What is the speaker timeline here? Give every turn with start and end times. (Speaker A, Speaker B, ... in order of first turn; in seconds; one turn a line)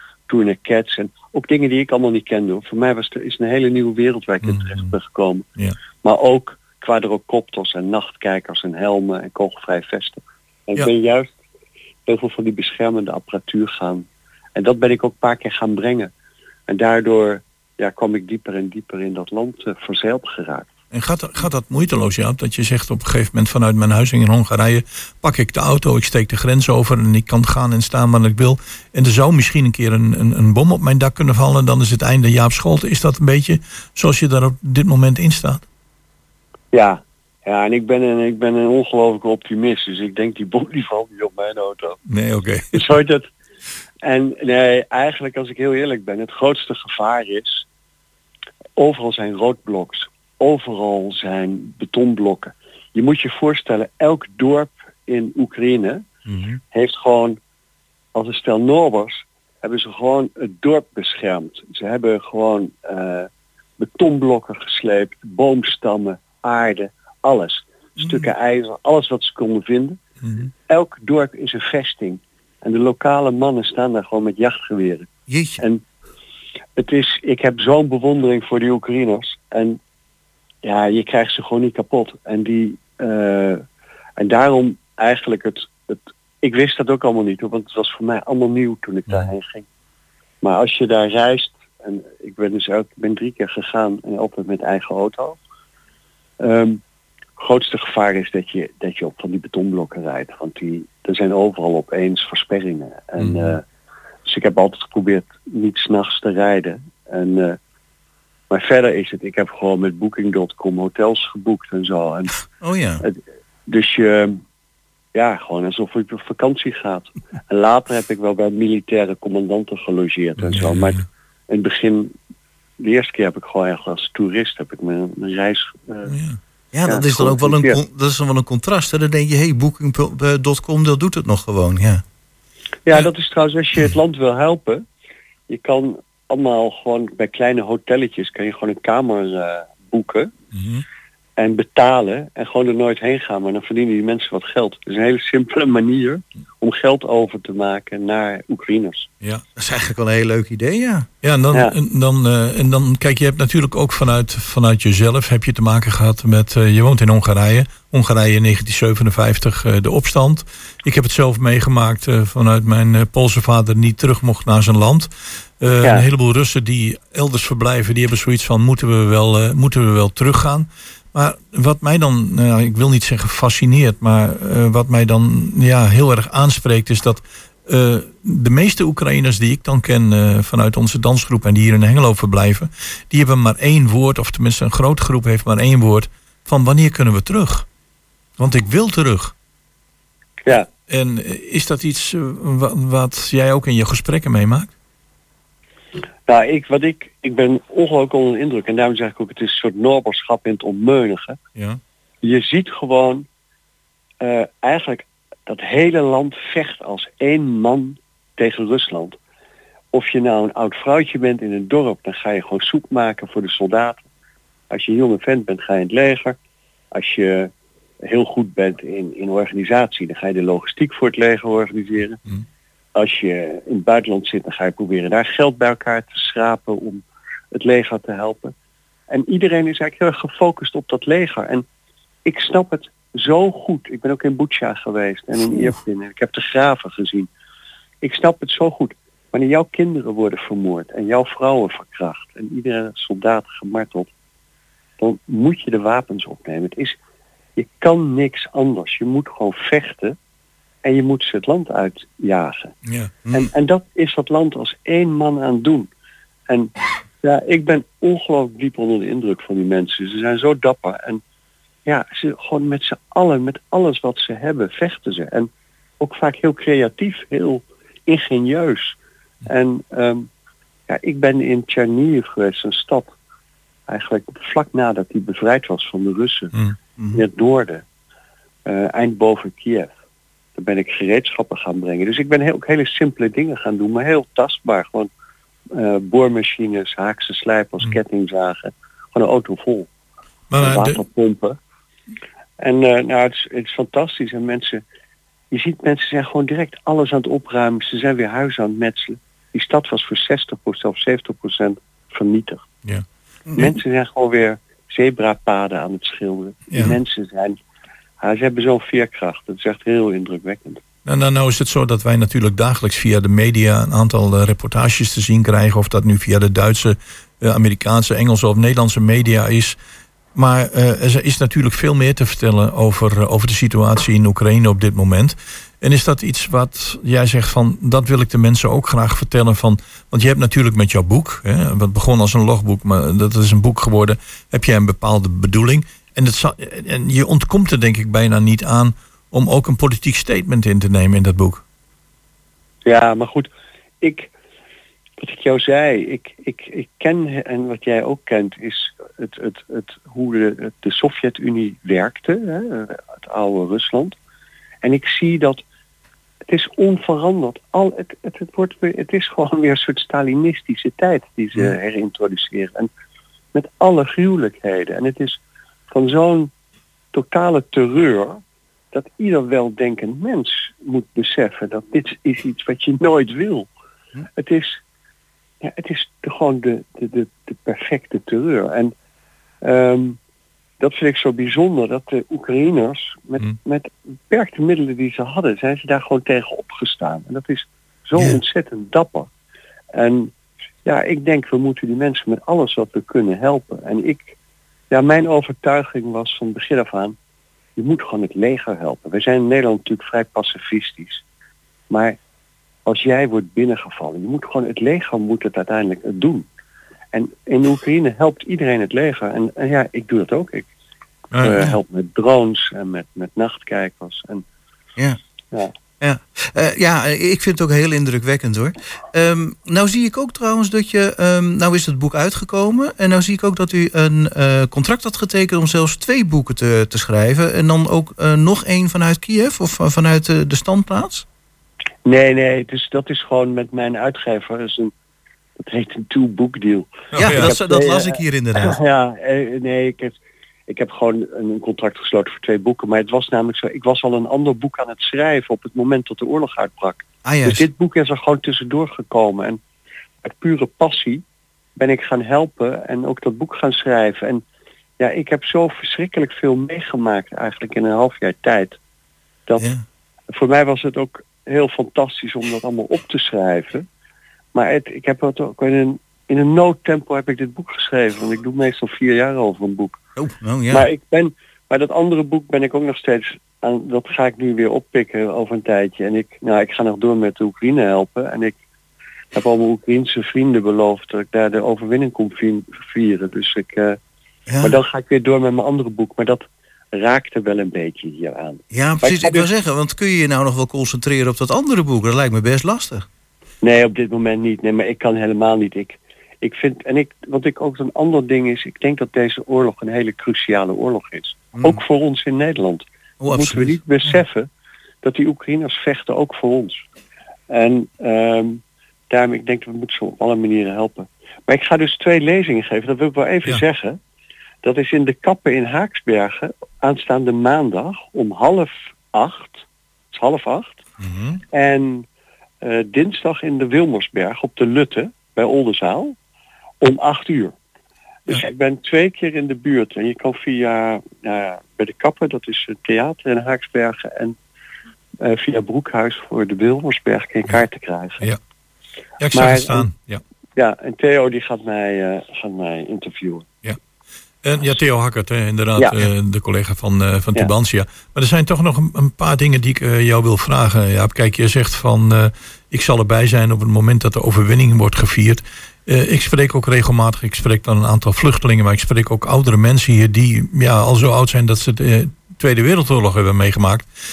Speaker A: 0.3-5.5
Speaker B: 4.4-4.9
Speaker A: 6.0-11.3
Speaker A: 12.1-16.1
Speaker A: 16.7-20.7
Speaker B: 20.9-35.6
Speaker A: 36.7-42.0
Speaker B: 42.1-42.9
Speaker A: 42.7-43.3
Speaker A: 44.0-47.6
Speaker A: 48.8-56.0
Speaker A: 56.7-57.4
Speaker A: 58.1-63.3
Speaker A: 63.8-70.0
Speaker C: 68.0-68.3
Speaker B: 70.2-70.5
Speaker A: 70.7-75.1
Speaker C: 75.3-75.6
Speaker A: 76.8-79.8
Speaker A: 80.6-83.6
Speaker A: 84.2-89.7
Speaker A: 90.4-95.4
Speaker A: 96.4-96.8
Speaker A: 97.4-103.6
Speaker B: 103.2-103.5
Speaker A: 104.2-107.6
Speaker A: 108.5-112.3
Speaker C: 112.6-113.0
Speaker A: 113.0-114.4
Speaker A: 115.1-122.1
Speaker B: 120.4-121.0
Speaker A: 122.8-126.1
Speaker B: 126.1-126.4
Speaker C: 126.7-132.0
Speaker A: 126.9-127.8
Speaker A: 132.8-134.8
Speaker A: 135.5-140.3
Speaker B: 140.5-140.8
Speaker A: 141.4-149.1
Speaker C: 149.6-151.1
Speaker B: 151.2-165.1
Speaker B: 165.6-187.7
Speaker B: 188.4-189.3
Speaker B: 190.9-194.7
Speaker A: 196.3-201.4
Speaker A: 202.2-203.2
Speaker A: 204.2-209.2
Speaker A: 209.9-214.0
Speaker A: 214.7-216.4
Speaker A: 216.9-217.5
Speaker A: 218.0-222.2
Speaker A: 222.9-228.5
Speaker A: 229.1-231.7
Speaker A: 232.2-237.3
Speaker A: 238.0-244.1
Speaker A: 245.0-247.0
Speaker A: 247.6-250.2
Speaker A: 250.8-252.7
Speaker B: 252.8-253.1
Speaker A: 253.3-255.9
Speaker A: 256.5-261.2
Speaker A: 261.9-270.3
Speaker A: 270.9-273.1
Speaker A: 273.9-276.5
Speaker A: 277.1-277.8
Speaker A: 278.6-279.9
Speaker A: 280.5-285.1
Speaker A: 285.7-289.9
Speaker B: 290.5-291.0
Speaker A: 290.6-291.6
Speaker A: 292.6-294.8
Speaker A: 295.5-302.6
Speaker C: 303.5-303.7
Speaker A: 303.6-307.6
Speaker B: 306.7-306.9
Speaker A: 308.2-310.8
Speaker B: 311.1-319.8
Speaker B: 320.4-341.6
Speaker A: 342.8-343.5
Speaker A: 344.0-344.3
Speaker A: 345.2-354.2
Speaker A: 354.8-355.6
Speaker A: 356.5-362.9
Speaker A: 363.5-366.5
Speaker A: 367.1-368.4
Speaker A: 368.9-373.7
Speaker A: 374.4-374.8
Speaker A: 375.6-378.9
Speaker A: 379.6-380.2
Speaker A: 380.8-389.3
Speaker A: 389.9-390.3
Speaker A: 390.8-394.4
Speaker A: 394.9-397.1
Speaker A: 397.8-401.2
Speaker A: 401.9-402.2
Speaker A: 402.9-406.4
Speaker A: 407.1-410.7
Speaker B: 411.3-411.7
Speaker A: 411.4-414.4
Speaker C: 416.0-431.2
Speaker A: 432.0-434.9
Speaker A: 435.6-440.1
Speaker B: 437.1-437.5
Speaker C: 437.1-438.8
Speaker A: 440.7-449.6
Speaker C: 447.2-447.6
Speaker A: 450.2-451.2
Speaker A: 451.8-454.4
Speaker A: 455.0-458.8
Speaker C: 459.6-459.8
Speaker A: 460.3-463.9
Speaker A: 464.5-470.0
Speaker C: 470.2-470.9
Speaker A: 470.7-478.6
Speaker A: 479.3-484.0
Speaker C: 484.5-484.8
Speaker A: 484.6-489.5
Speaker C: 488.7-493.0
Speaker A: 493.6-504.5
Speaker C: 501.6-501.8
Speaker C: 503.2-504.2
Speaker A: 505.0-506.8
Speaker A: 507.5-514.0
Speaker A: 514.6-520.8
Speaker B: 521.0-521.4
Speaker A: 521.5-522.0
Speaker A: 522.6-526.1
Speaker A: 526.8-527.5
Speaker A: 528.3-534.3
Speaker A: 535.2-538.2
Speaker B: 539.2-540.2
Speaker A: 539.3-539.9
Speaker A: 540.5-543.5
Speaker B: 544.4-563.9
Speaker A: 545.8-546.0